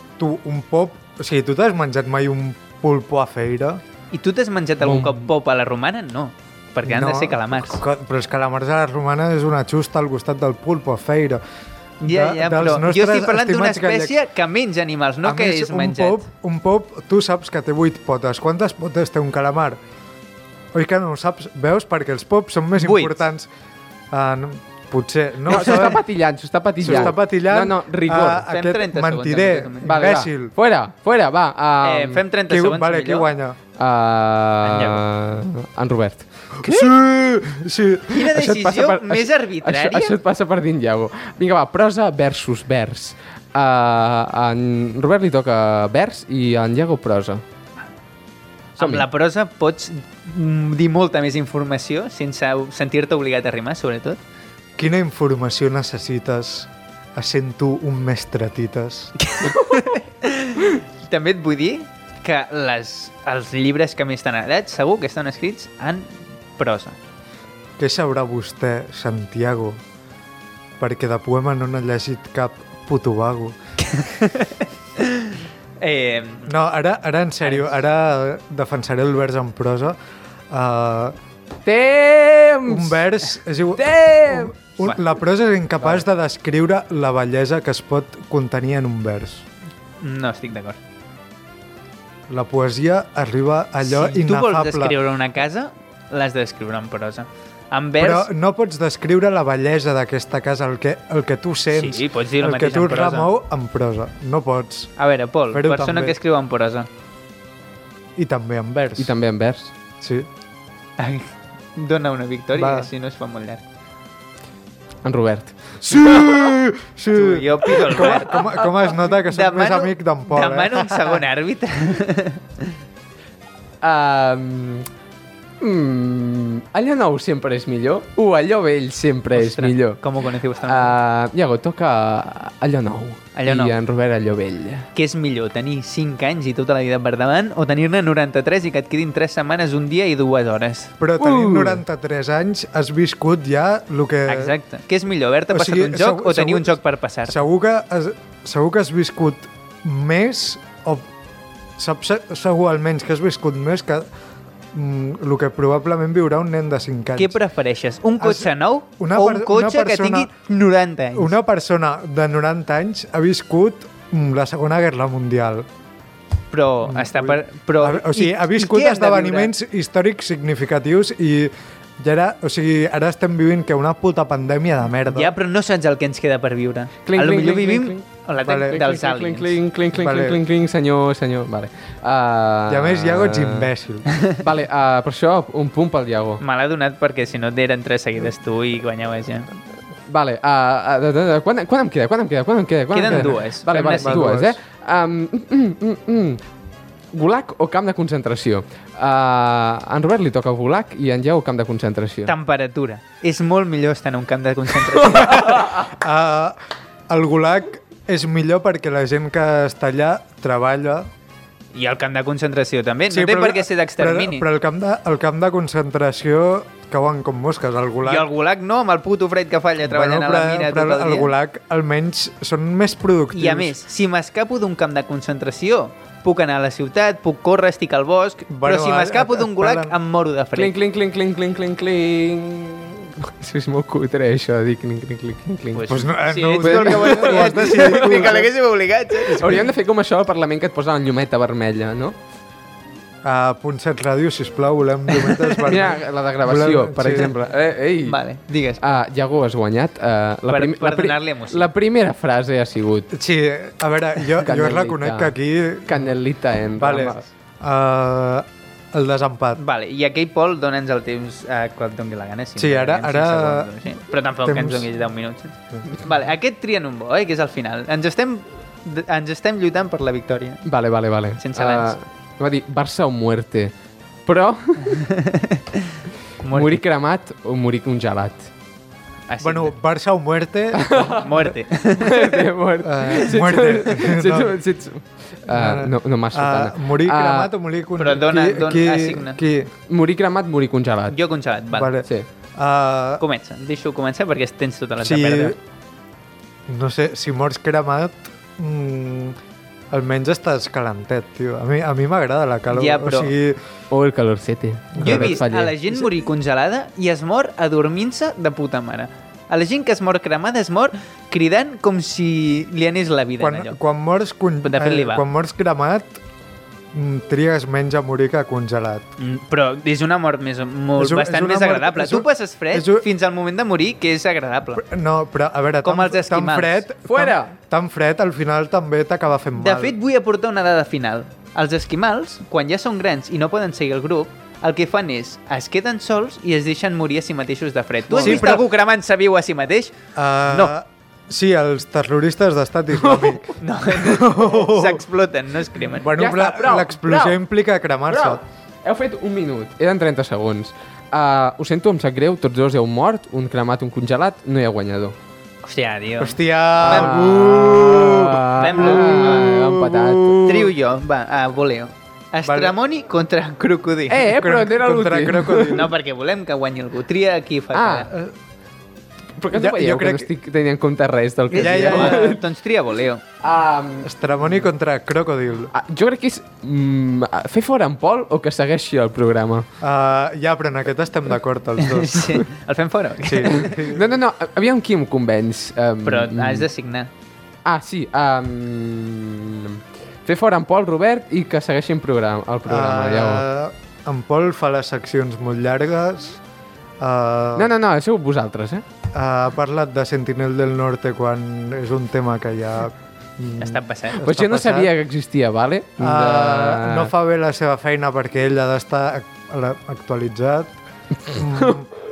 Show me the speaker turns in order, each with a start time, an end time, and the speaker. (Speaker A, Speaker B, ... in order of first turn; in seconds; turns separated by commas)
Speaker A: 0.2-3.8, Speaker B: 4.1-7.8, Speaker C: 4.8-5.3, Speaker A: 6.8-11.4, Speaker A: 12.0-14.2, Speaker B: 12.0-16.2, Speaker A: 15.2-19.8, Speaker A: 20.7-23.5, Speaker B: 22.8-23.3, Speaker A: 24.1-26.0, Speaker C: 25.5-28.5, Speaker A: 26.8-30.5, Speaker B: 28.5-29.9, Speaker C: 29.9-32.2, Speaker B: 31.8-33.3, Speaker A: 32.5-33.6, Speaker C: 33.8-36.3, Speaker B: 34.6-35.0, Speaker B: 36.6-36.9, Speaker A: 36.6-38.2, Speaker B: 38.1-40.2, Speaker C: 38.3-47.4, Speaker B: 48.8-54.2, Speaker C: 48.8-49.1, Speaker A: 54.8-59.1, Speaker B: 59.2-67.0, Speaker A: 67.8-69.8, Speaker A: 70.8-73.5, Speaker B: 73.8-76.5, Speaker A: 76.5-80.0, Speaker B: 77.4-77.7, Speaker A: 80.5-81.2, Speaker C: 81.7-83.1, Speaker A: 82.7-89.5, Speaker C: 83.8-85.0, Speaker B: 90.0-90.8, Speaker A: 92.3-95.0, Speaker B: 93.8-98.3, Speaker A: 98.0-105.0, Speaker B: 101.7-103.3, Speaker B: 105.0-106.9, Speaker A: 105.5-106.2, Speaker A: 108.2-109.1, Speaker C: 109.0-109.7, Speaker A: 110.0-110.3, Speaker B: 111.0-113.6, Speaker A: 112.5-112.9, Speaker C: 115.0-116.5, Speaker A: 115.8-121.2, Speaker B: 117.1-122.8, Speaker C: 123.8-124.9, Speaker C: 125.6-130.0, Speaker B: 129.3-130.9, Speaker C: 130.7-134.9, Speaker B: 133.4-133.7, Speaker B: 134.9-140.9, Speaker A: 141.0-144.6, Speaker C: 141.2-141.8, Speaker B: 144.3-147.4, Speaker A: 145.5-151.1, Speaker A: 151.8-154.1, Speaker A: 154.7-157.4, Speaker B: 157.2-161.3, Speaker A: 158.2-160.3, Speaker A: 161.1-165.7, Speaker B: 166.5-169.5, Speaker A: 166.8-175.3, Speaker B: 175.1-179.6, Speaker C: 177.1-183.7, Speaker A: 178.5-178.8, Speaker A: 180.0-180.4, Speaker A: 182.7-184.1, Speaker C: 184.4-186.4, Speaker B: 186.4-189.5, Speaker C: 190.1-196.4, Speaker B: 192.9-194.3, Speaker A: 193.0-193.4, Speaker A: 194.0-194.6, Speaker C: 197.1-202.3, Speaker B: 202.2-205.4, Speaker A: 205.1-206.6, Speaker A: 207.1-211.1, Speaker B: 211.7-214.5, Speaker A: 213.1-218.3, Speaker B: 218.1-221.3, Speaker A: 219.8-223.8, Speaker B: 223.3-230.7, Speaker A: 228.5-229.9, Speaker C: 230.6-235.9, Speaker B: 235.7-239.6, Speaker A: 235.9-238.5, Speaker C: 236.6-238.4, Speaker C: 239.2-242.2, Speaker A: 239.3-239.7, Speaker A: 243.2-247.3, Speaker B: 245.2-245.8, Speaker C: 245.7-248.2, Speaker B: 248.1-248.8, Speaker C: 248.8-253.1, Speaker B: 250.5-251.7, Speaker A: 253.1-256.1, Speaker C: 254.4-255.3, Speaker C: 255.9-257.2, Speaker A: 256.8-259.6, Speaker B: 259.6-270.7, Speaker A: 262.6-263.7, Speaker A: 264.4-264.9, Speaker C: 270.7-273.7, Speaker B: 271.4-272.0, Speaker C: 274.3-275.0, Speaker B: 274.8-276.8, Speaker C: 276.5-278.5, Speaker B: 279.3-279.7, Speaker A: 279.4-281.3, Speaker C: 280.8-287.5, Speaker B: 281.2-282.5, Speaker A: 282.8-284.6, Speaker A: 285.5-289.7, Speaker B: 288.0-289.4, Speaker C: 289.9-291.2, Speaker B: 291.1-291.9, Speaker A: 291.7-293.2, Speaker B: 293.2-295.6, Speaker A: 295.0-295.6, Speaker A: 296.7-299.4, Speaker A: 299.9-303.6, Speaker B: 302.7-303.3, Speaker C: 303.9-305.8, Speaker A: 305.0-305.4, Speaker B: 305.0-313.8, Speaker A: 313.4-316.2, Speaker B: 314.6-315.2, Speaker A: 316.9-319.1, Speaker B: 319.2-324.8, Speaker A: 321.0-323.1, Speaker A: 324.8-329.9, Speaker B: 325.8-326.8, Speaker C: 327.1-327.5, Speaker B: 329.6-339.9, Speaker A: 338.1-338.7, Speaker C: 338.1-338.6, Speaker A: 340.2-345.0, Speaker B: 340.5-340.8, Speaker B: 343.5-346.1, Speaker A: 346.0-348.4, Speaker C: 346.2-347.4, Speaker C: 348.1-355.1, Speaker B: 355.6-357.3, Speaker A: 356.2-360.4, Speaker C: 356.8-360.7, Speaker B: 358.6-359.6, Speaker B: 360.4-364.3, Speaker A: 362.4-362.8, Speaker C: 364.1-365.9, Speaker A: 364.3-365.9, Speaker B: 365.7-368.1, Speaker C: 367.7-368.1, Speaker C: 369.4-372.4, Speaker A: 369.5-370.3, Speaker B: 371.5-373.2, Speaker A: 371.6-372.3, Speaker C: 373.4-374.1, Speaker A: 374.0-375.7, Speaker C: 375.7-379.7, Speaker A: 379.8-382.4, Speaker B: 381.8-383.8, Speaker A: 383.2-384.1, Speaker C: 383.8-386.7, Speaker B: 386.0-387.1, Speaker C: 387.6-393.4, Speaker A: 392.7-396.4, Speaker A: 397.0-397.7, Speaker C: 397.6-398.8, Speaker A: 399.1-404.9, Speaker B: 403.6-404.2, Speaker C: 404.2-407.1, Speaker A: 406.0-411.9